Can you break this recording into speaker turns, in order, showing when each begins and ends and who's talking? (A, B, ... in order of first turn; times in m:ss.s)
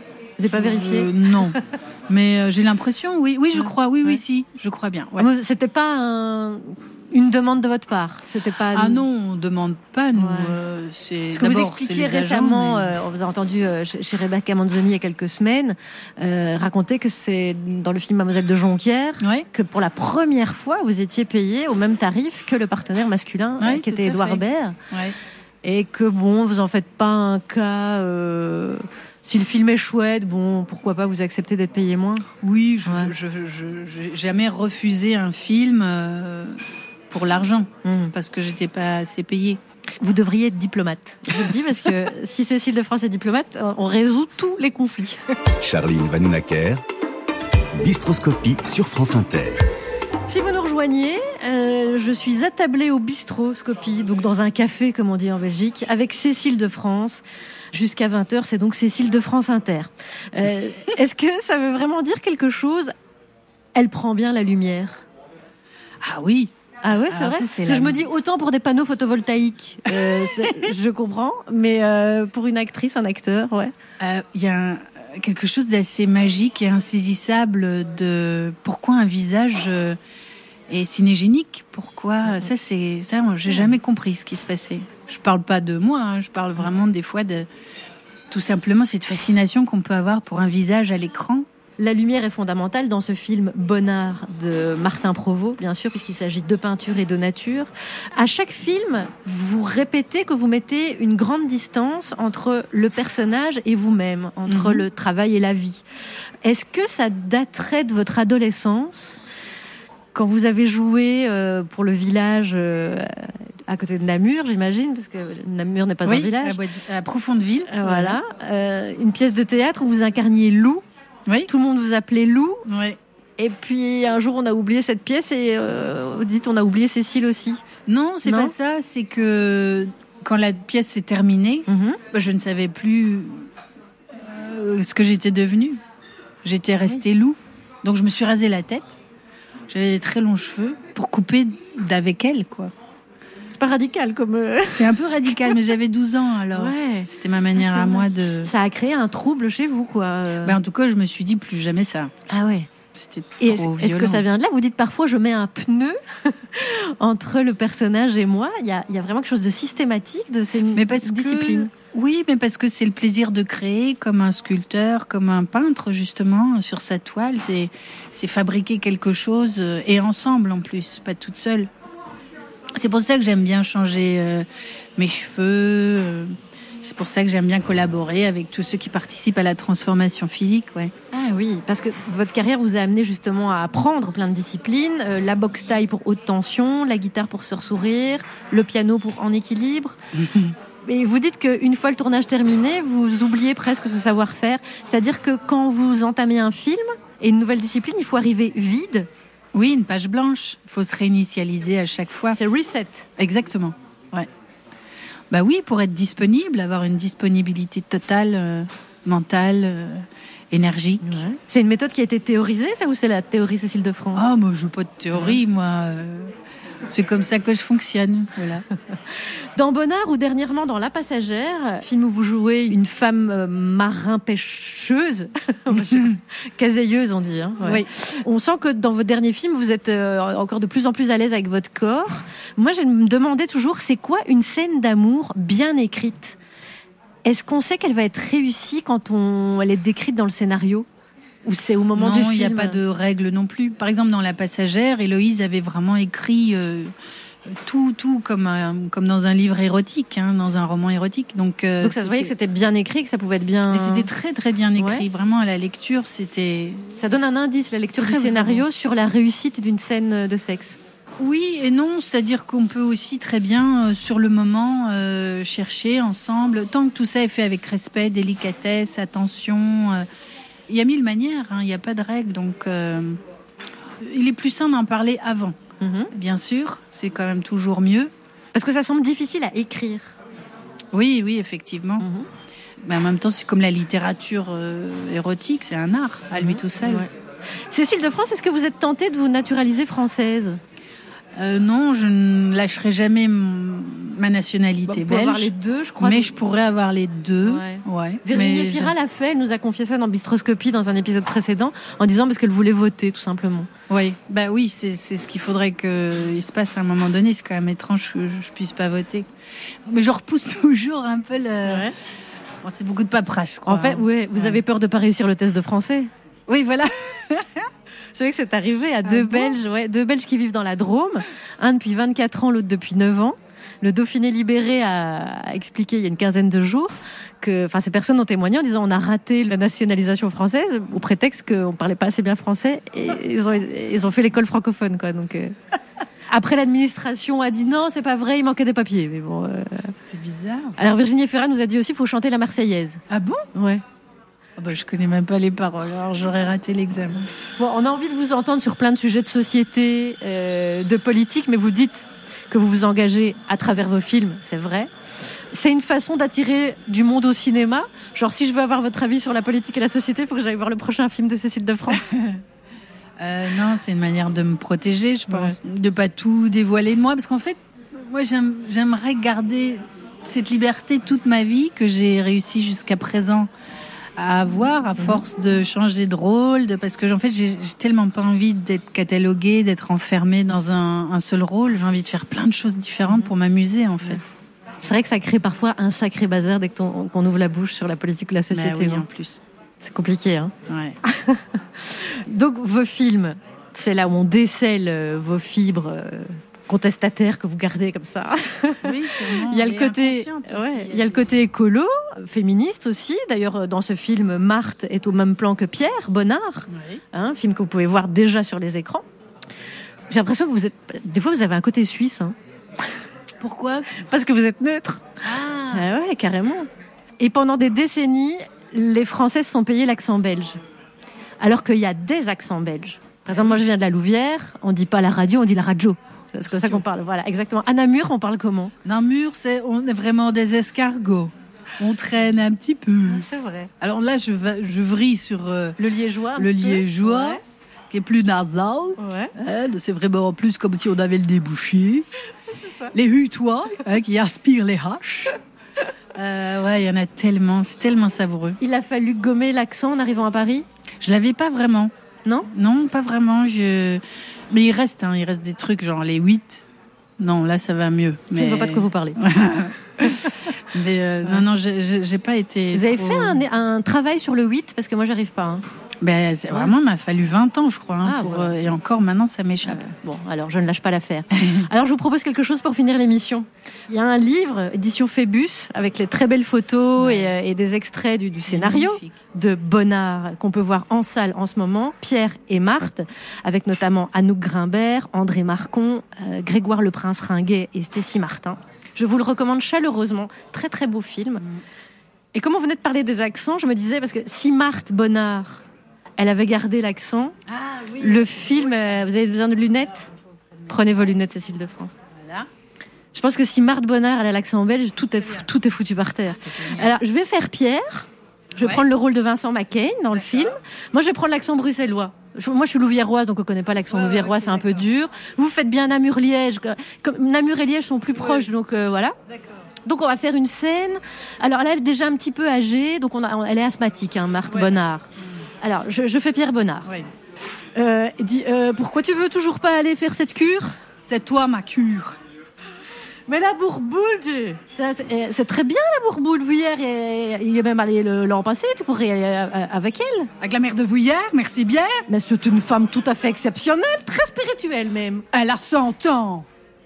0:00.4-0:01.6 A
0:00.5-0:05.3 B
0:03.6-0:04.2 A
0:05.2-0:09.0 A
0:08.7-0:13.0 B
0:10.2-0:10.6 A
0:11.3-0:24.8 A
0:19.2-0:19.5 B
0:23.6-0:25.2 B
0:25.6-0:32.3 A
0:32.4-0:39.6 B
0:32.8-0:33.1 A
0:37.8-0:38.1 A
0:40.0-0:45.4 A
0:45.6-0:46.8 C
0:47.7-0:49.6 C
0:50.3-1:02.9 A
1:03.8-1:05.0 A
1:06.0-1:06.5 B
1:06.8-1:13.7 A
1:07.1-1:08.0 B
1:09.9-1:10.7 B
1:14.0-1:20.0 B
1:20.7-1:27.5 B
1:28.3-1:31.5 B
1:31.8-1:45.8 A
1:44.5-1:44.9 B
1:46.4-1:49.2 A
1:50.1-1:56.6 A
1:56.0-1:58.2 B
1:57.7-2:00.8 A
2:01.5-2:02.7 A
2:02.7-2:03.0 B
2:03.4-2:07.6 A
2:07.9-2:13.5 B
2:08.2-2:08.6 A
2:11.7-2:12.0 A
2:14.2-2:15.8 B
2:16.4-2:19.0 B
2:19.7-2:22.7 B
2:23.5-2:25.1 A
2:24.7-2:28.5 B
2:26.5-2:30.6 A
2:30.4-2:32.1 B
2:32.3-2:32.7 A
2:32.9-2:34.2 B
2:33.4-2:41.7 A
2:40.7-2:51.7 B
2:52.8-3:00.9 B
3:01.1-3:10.0 A
3:10.1-3:10.6 B
3:10.8-3:19.1 A
3:19.5-3:22.4 B
3:22.3-3:23.1 A
3:23.2-3:24.3 B
3:25.3-3:31.2 B
3:31.0-3:34.2 A
3:34.2-3:36.3 B
3:36.9-3:38.7 B
3:39.6-3:56.4 A
3:45.8-3:46.1 B
3:47.6-3:47.9 B
3:57.2-4:00.9 A
4:01.4-4:02.8 A
4:02.0-4:06.9 B
4:07.5-4:12.3 B
4:11.8-4:14.1 A
4:13.7-4:17.3 B
4:14.8-4:15.1 A
4:17.0-4:20.8 A
4:17.8-4:18.7 B
4:21.2-4:30.1 B
4:30.7-4:33.2 B
4:34.0-4:35.6 B
4:35.8-4:36.1 A
4:36.1-4:38.1 B
4:38.5-4:40.2 A
4:40.9-4:42.1 B
4:42.0-4:42.3 A
4:42.8-4:47.1 B
4:46.3-4:47.1 A
4:47.7-4:50.6 A
4:51.4-4:59.0 B
4:54.9-4:56.3 A
4:57.4-5:03.7 A
5:03.9-5:09.3 B
5:09.9-5:11.9 B
5:11.6-5:11.9 A
5:12.6-5:14.6 B
5:13.7-5:16.1 A
5:16.5-5:17.7 B
5:18.2-5:35.6 A
5:19.0-5:19.6 B
5:36.3-5:39.9 A
5:40.0-5:40.8 B
5:40.8-5:43.0 A
5:43.1-5:43.5 B
5:43.5-5:43.8 A
5:44.6-5:47.3 B
5:47.6-6:02.1 A
6:01.9-6:02.4 B
6:03.2-6:13.5 B
6:14.2-6:24.3 B
6:24.8-6:29.1 A
6:28.5-6:29.4 B
6:29.8-6:49.0 A
6:30.7-6:31.0 B
6:38.8-6:41.3 B
6:46.7-6:47.0 B
6:50.1-6:52.4 A
6:53.4-6:53.9 B
6:53.9-6:55.1 A
6:55.2-6:55.9 B
6:55.7-7:00.6 A
7:01.4-7:08.7 A
7:06.5-7:06.8 B
7:08.8-7:13.3 B
7:13.1-7:13.7 A
7:13.8-7:15.8 B
7:15.8-7:17.4 A
7:16.4-7:22.1 B
7:19.0-7:19.4 A
7:22.4-7:23.0 A
7:22.9-7:25.4 B
7:26.1-7:28.6 B
7:28.6-7:30.7 A
7:31.0-7:31.9 B
7:32.5-7:36.7 B
7:37.2-7:43.4 B
7:38.4-7:39.2 A
7:42.7-7:45.6 A
7:46.0-7:49.8 B
7:48.0-7:48.6 A
7:49.6-8:11.5 A
7:57.0-7:57.3 B
7:58.5-7:59.2 B
8:12.3-8:15.6 A
8:16.2-8:17.4 A
8:17.5-8:19.1 B
8:18.0-8:20.1 A
8:20.7-8:22.0 A
8:22.2-8:22.5 B
8:23.1-8:39.2 A
8:25.2-8:25.5 B
8:26.3-8:27.0 B
8:28.6-8:28.9 B
8:30.1-8:30.5 B
8:33.9-8:34.9 B
8:38.1-8:38.5 B
8:39.3-8:39.7 B
8:39.8-8:45.1 A
8:44.5-8:44.7 B
8:45.6-8:46.9 A
8:46.8-8:47.1 B
8:47.8-8:50.8 A
8:51.0-8:52.2 B
8:53.3-9:00.3 A
9:00.4-9:02.1 B
9:02.1-9:05.2 A
9:05.3-9:06.5 B